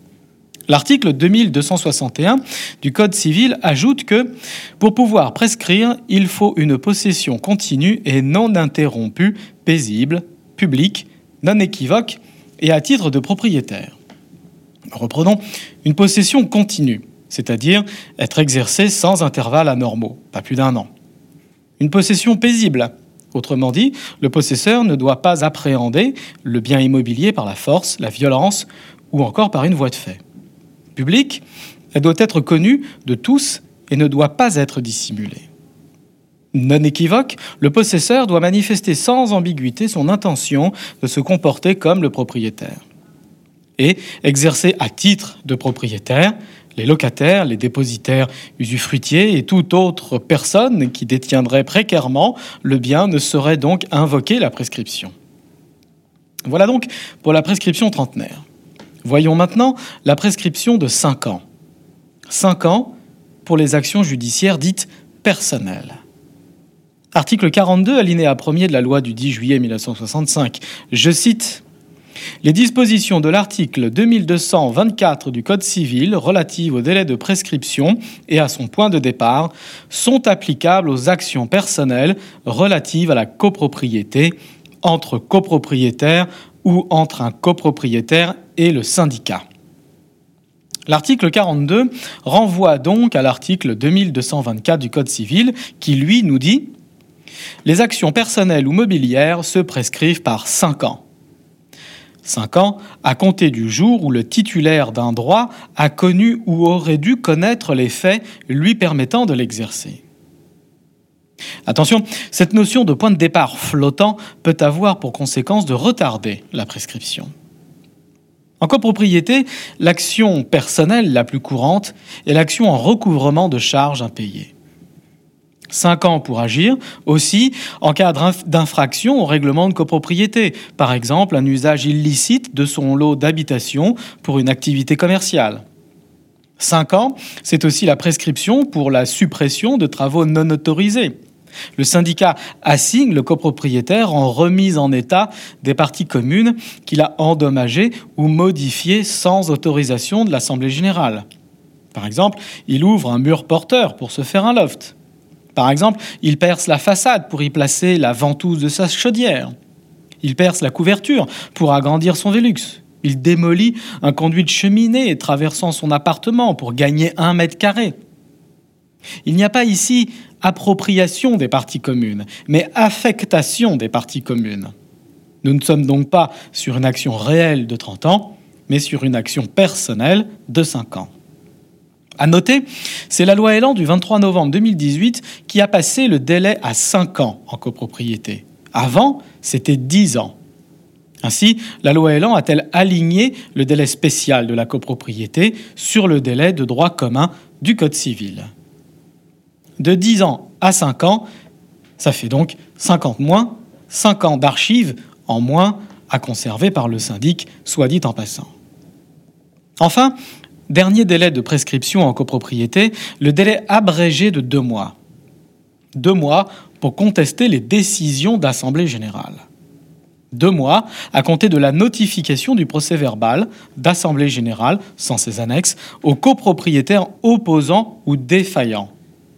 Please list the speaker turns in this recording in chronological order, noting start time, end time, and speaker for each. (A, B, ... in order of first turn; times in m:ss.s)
0:00.7-0:13.9 A
0:14.9-0:20.9 A
0:21.8-0:30.2 A
0:31.0-0:35.4 A
0:36.5-0:42.8 A
0:43.8-0:55.1 A
0:56.5-0:58.4 A
0:59.0-1:01.4 A
1:02.3-1:02.9 A
1:03.4-1:06.0 A
1:07.1-1:11.6 A
1:12.4-1:29.4 A
1:30.9-1:36.7 A
1:37.6-1:41.0 A
1:42.2-1:50.0 A
1:51.7-1:57.3 A
1:58.6-2:04.5 A
2:05.7-2:15.6 A
2:16.6-2:21.1 A
2:21.8-2:31.2 A
2:31.9-2:34.9 A
2:35.6-2:39.5 A
2:40.2-2:47.9 A
2:49.2-2:54.7 A
2:55.4-3:01.1 A
3:02.2-3:10.3 A
3:11.2-3:18.5 A
3:19.8-3:21.2 A
3:22.0-3:28.5 A
3:29.8-3:30.1 A
3:30.7-3:34.9 A
3:35.9-3:39.4 A
3:40.3-3:48.9 A